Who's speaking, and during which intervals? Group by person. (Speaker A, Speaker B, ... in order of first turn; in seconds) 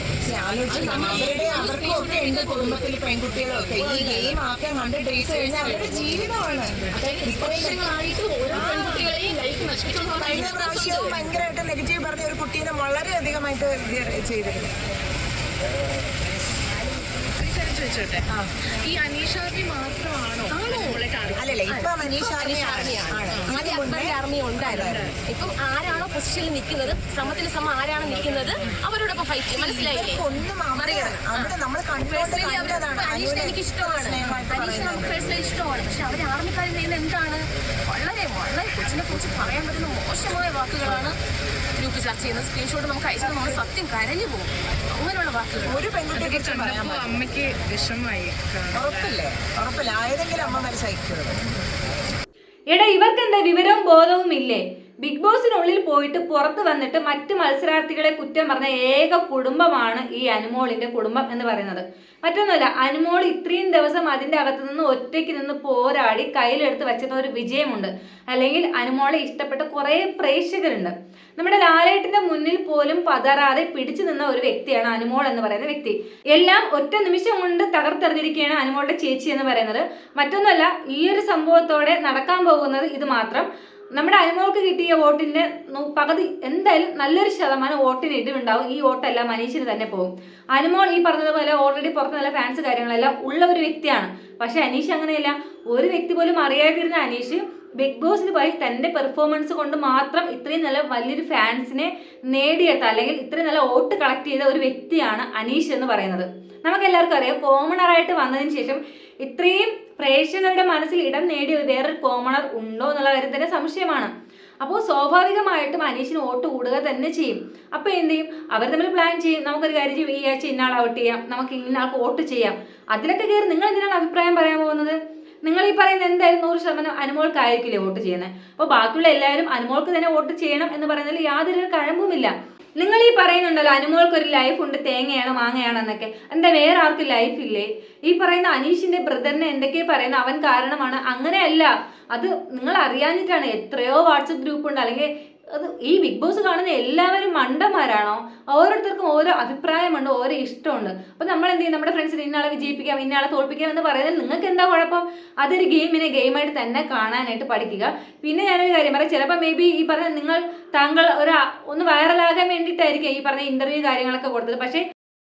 Speaker A: 0.2-7.8, 8.5-9.1, 10.2-14.7, 21.4-25.1, 29.5-35.2, 45.6-47.2, 48.7-51.4
Speaker B: 0.7-2.9, 3.7-4.4, 5.2-6.3, 6.9-11.2, 20.5-21.1, 21.7-30.2, 30.8-41.2, 41.8-45.8
Speaker C: 17.4-21.5, 28.5-28.8, 46.1-48.9
Speaker D: 52.7-114.1, 114.6-164.8